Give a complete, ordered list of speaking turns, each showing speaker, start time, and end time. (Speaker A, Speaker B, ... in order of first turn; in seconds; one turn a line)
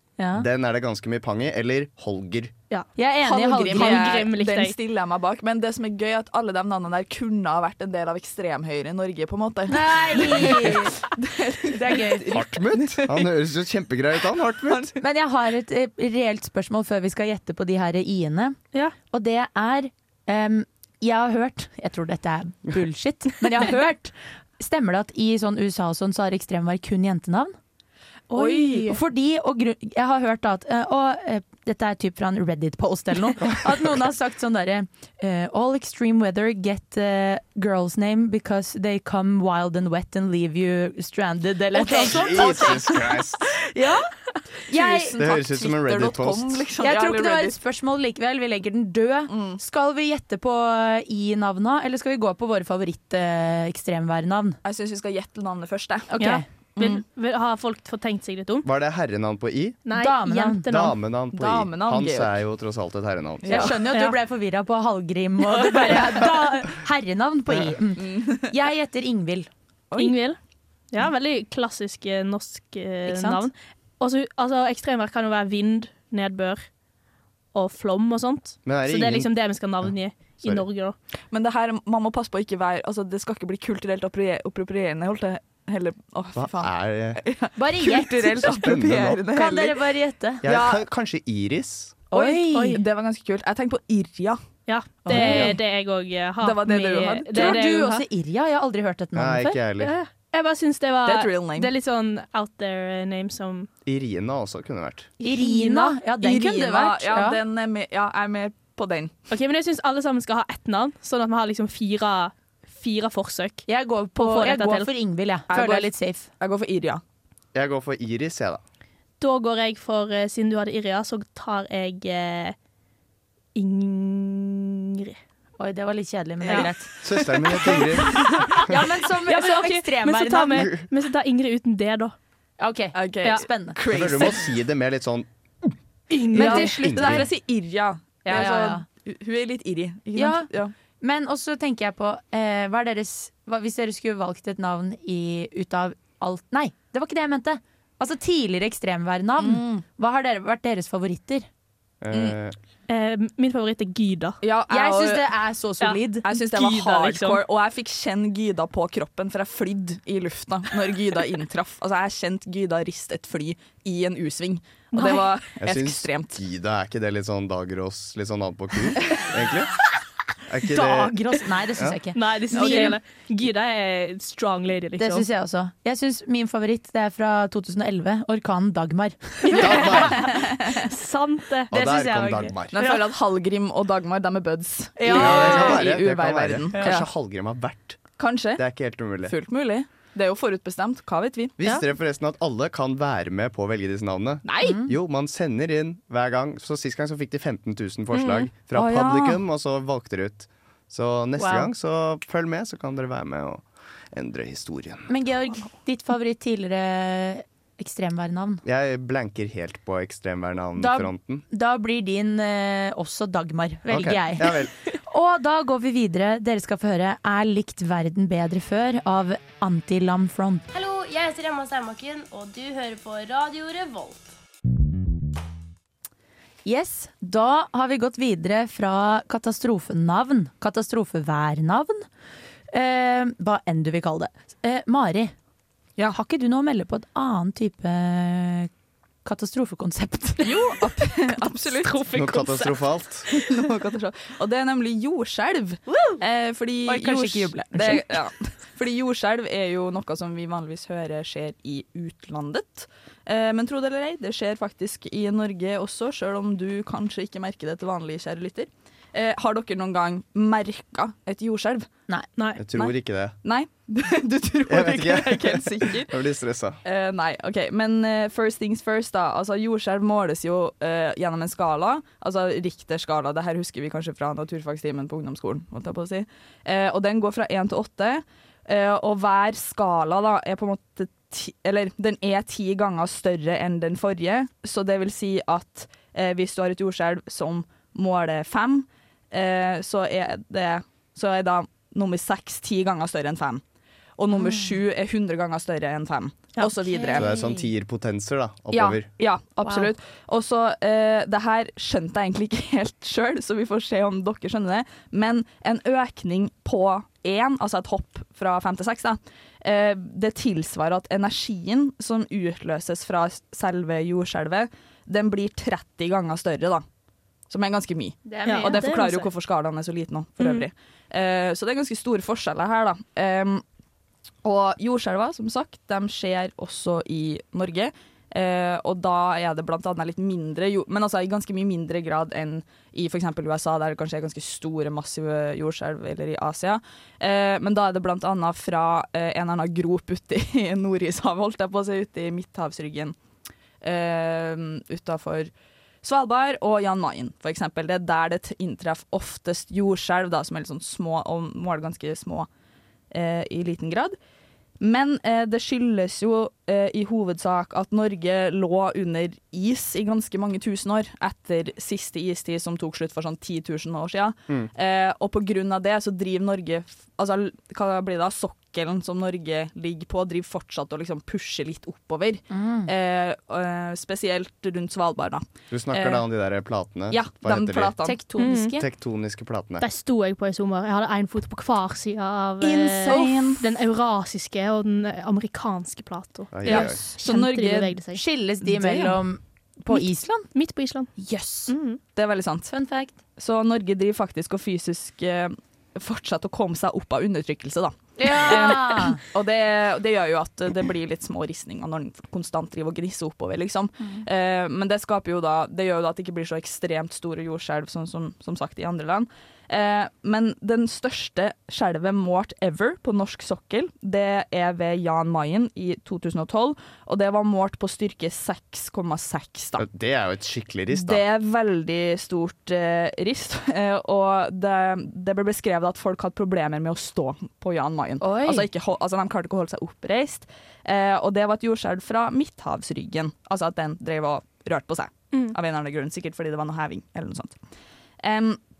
Speaker A: 0.2-0.5
Speaker B: 0.3-2.5
Speaker A: 3.0-4.1
Speaker C: 3.2-13.3
Speaker D: 3.7-4.7
Speaker A: 9.7-11.0
Speaker A: 11.7-12.4
Speaker B: 12.3-14.9
Speaker C: 14.7-14.9
Speaker A: 15.0-18.6
Speaker A: 19.1-27.5
Speaker D: 28.3-29.0
Speaker A: 28.3-43.0
Speaker C: 28.4-28.8
Speaker B: 41.9-43.6
Speaker C: 42.1-43.1
Speaker A: 43.7-44.1
Speaker A: 44.6-45.2
Speaker C: 44.7-47.6
Speaker B: 45.2-46.6
Speaker A: 46.8-54.6
Speaker C: 49.3-49.6
Speaker C: 54.6-56.1
Speaker A: 56.1-56.4
Speaker D: 56.2-58.7
Speaker C: 56.8-57.0
Speaker B: 58.6-59.8
Speaker D: 59.8-60.9
Speaker A: 59.9-60.6
Speaker B: 60.7-63.8
Speaker C: 61.3-62.3
Speaker C: 63.4-63.8
Speaker A: 63.5-69.5
Speaker D: 63.9-64.2
Speaker C: 68.0-68.5
Speaker C: 69.9-70.2
Speaker D: 70.0-70.4
Speaker D: 70.9-76.7
Speaker A: 73.1-73.4
Speaker D: 77.5-81.0
Speaker B: 78.7-79.3
Speaker C: 81.3-89.8
Speaker B: 86.3-87.2
Speaker A: 87.5-88.7
Speaker B: 88.5-89.2
Speaker A: 89.3-90.4
Speaker B: 90.4-92.0
Speaker C: 90.4-90.8
Speaker A: 92.1-92.8
Speaker C: 92.1-94.4
Speaker D: 92.5-92.8
Speaker D: 94.7-98.0
Speaker A: 95.0-95.5
Speaker C: 96.4-97.6
Speaker A: 97.3-99.6
Speaker B: 99.1-99.9
Speaker D: 99.8-103.7
Speaker C: 101.0-101.7
Speaker B: 103.8-105.1
Speaker A: 105.2-107.4
Speaker D: 105.4-105.9
Speaker C: 106.2-109.1
Speaker D: 109.3-113.7
Speaker A: 113.7-116.3
Speaker D: 114.2-114.9
Speaker C: 115.5-117.0
Speaker B: 117.5-118.6
Speaker D: 119.2-122.5
Speaker D: 123.5-125.2
Speaker A: 125.6-130.7
Speaker B: 127.0-128.5
Speaker D: 127.6-132.1
Speaker B: 130.6-130.8
Speaker A: 132.6-133.8
Speaker C: 132.9-134.5
Speaker B: 133.9-135.3
Speaker D: 136.1-136.8
Speaker A: 136.3-137.2
Speaker C: 136.3-140.7
Speaker B: 136.6-137.3
Speaker A: 138.2-138.8
Speaker A: 140.2-140.5
Speaker A: 141.0-151.5
Speaker C: 149.4-149.8
Speaker B: 152.0-152.6
Speaker D: 152.9-154.4
Speaker C: 154.4-155.2
Speaker A: 154.7-156.2
Speaker D: 155.8-157.4
Speaker C: 156.2-166.4
Speaker D: 164.9-165.2
Speaker B: 165.6-169.7
Speaker B: 170.5-171.2
Speaker A: 170.7-173.0
Speaker D: 172.1-175.3
Speaker C: 172.5-172.9
Speaker A: 175.0-180.0
Speaker D: 179.4-181.8
Speaker B: 179.5-180.4
Speaker B: 181.7-182.8
Speaker A: 181.7-183.0
Speaker C: 182.7-187.1
Speaker A: 185.0-185.8
Speaker B: 185.1-188.0
Speaker C: 188.2-188.6
Speaker B: 188.6-189.3
Speaker C: 189.2-191.6
Speaker B: 191.6-205.1
Speaker C: 194.4-194.7
Speaker A: 194.6-194.9
Speaker C: 198.7-199.4
Speaker A: 201.4-201.7
Speaker A: 205.1-208.6
Speaker B: 208.6-211.4
Speaker A: 210.8-220.6
Speaker B: 213.9-214.7
Speaker E: 220.7-224.3
Speaker A: 226.6-232.1
Speaker A: 232.7-235.3
Speaker A: 236.0-238.7
Speaker A: 239.2-240.5
Speaker C: 240.4-242.0
Speaker D: 241.8-242.8
Speaker B: 242.1-243.3
Speaker C: 243.3-261.9
Speaker A: 246.8-248.1
Speaker B: 262.6-263.3
Speaker C: 262.7-266.1
Speaker B: 264.7-266.8
Speaker C: 266.8-293.6
Speaker C: 294.2-297.3
Speaker A: 294.3-294.8
Speaker A: 296.8-297.7
Speaker B: 297.1-299.1
Speaker C: 298.7-316.8
Speaker A: 299.6-299.9
Speaker C: 317.5-323.6
Speaker A: 318.2-319.3
Speaker D: 318.4-319.2
Speaker D: 320.4-320.6
Speaker C: 324.4-343.1
Speaker C: 343.8-345.5
Speaker C: 346.0-352.5
Speaker C: 353.1-354.1
Speaker C: 354.8-376.2
Speaker A: 372.5-372.9
Speaker B: 375.7-378.0
Speaker C: 377.1-378.2
Speaker A: 378.0-378.8
Speaker D: 378.4-378.7
Speaker B: 378.8-379.8
Speaker D: 379.8-388.2
Speaker A: 382.6-383.5
Speaker C: 382.7-383.6
Speaker B: 386.5-387.0
Speaker A: 386.6-387.2
Speaker C: 386.7-388.0
Speaker A: 388.1-390.5
Speaker C: 388.6-389.2
Speaker D: 389.9-391.1
Speaker A: 391.2-391.7
Speaker D: 391.7-392.0
Speaker C: 392.1-392.7
Speaker A: 392.7-393.1
Speaker C: 393.4-419.8
Speaker A: 398.2-399.2
Speaker B: 419.8-421.2
Speaker C: 420.9-437.6
Speaker A: 428.2-428.7
Speaker C: 438.2-438.6